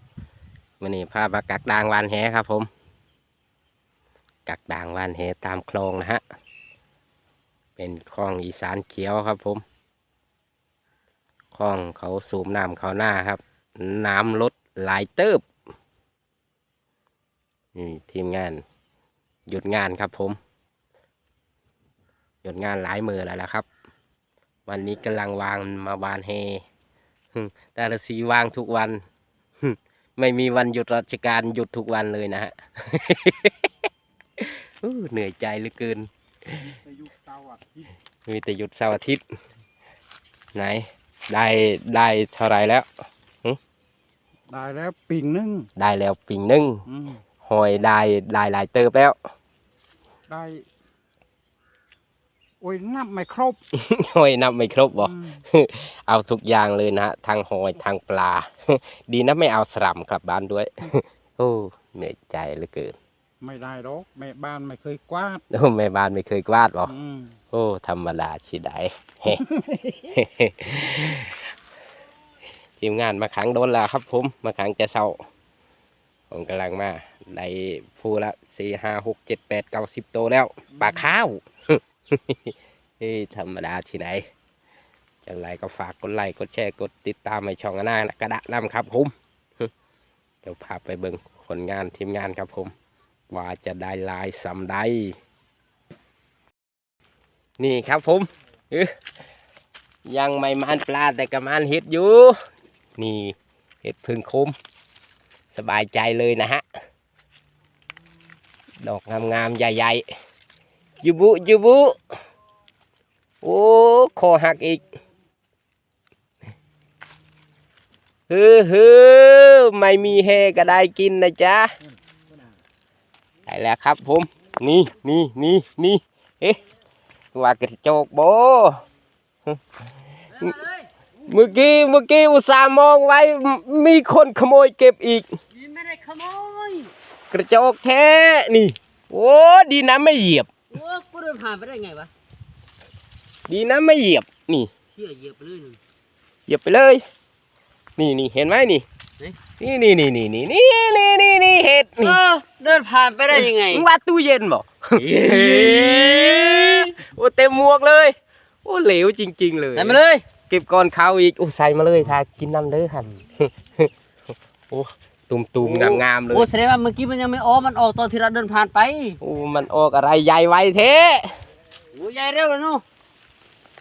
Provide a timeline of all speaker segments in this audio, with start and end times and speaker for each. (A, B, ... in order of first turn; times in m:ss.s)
0:00.8-0:02.7 A
0:04.4-0:06.2 A
0:07.8-0:09.6 A
0:11.5-0:15.4 A
0:17.7-0:18.6 A
0:19.5-0:20.4 A
0:22.4-0:23.6 A
0:24.7-0:26.6 A
0:27.3-0:29.0 A
0:29.6-0:33.6 A
0:34.4-0:36.7 A
0:36.8-0:37.8 B
0:38.2-0:39.2 A
0:40.5-0:42.9 A
0:44.5-0:45.7 B
0:45.8-0:46.8 A
0:46.8-0:47.2 B
0:47.4-0:49.2 A
0:50.3-0:50.6 B
0:52.6-0:53.6 B
0:53.8-1:03.0 A
0:55.0-0:55.4 B
1:03.4-1:05.4 B
1:05.5-1:06.9 A
1:06.8-1:07.3 B
1:07.5-1:09.4 A
1:10.0-1:11.4 A
1:12.8-1:15.2 A
1:16.3-1:24.2 A
1:25.2-1:29.7 A
1:30.4-1:32.7 A
1:33.3-1:35.2 A
1:37.6-1:38.9 A
1:40.0-1:42.4 A
1:43.0-1:44.5 A
1:45.5-1:46.6 A
1:48.8-1:50.0 A
1:51.0-1:52.0 A
1:53.4-1:54.8 A
1:58.3-2:01.7 A
2:03.5-2:06.6 A
2:07.3-2:08.8 A
2:10.3-2:10.9 C
2:11.2-2:15.3 A
2:15.5-2:16.9 C
2:17.3-2:20.5 A
2:20.7-2:22.1 C
2:23.5-2:24.7 A
2:24.9-2:25.8 C
2:26.5-2:27.0 A
2:28.0-2:28.8 A
2:29.6-2:32.2 A
2:32.0-2:33.8 C
2:33.3-2:43.9 A
2:35.0-2:36.9 C
2:39.7-2:40.2 C
2:44.7-2:46.5 A
2:45.6-2:49.2 C
2:49.2-2:51.3 A
2:51.9-2:52.8 C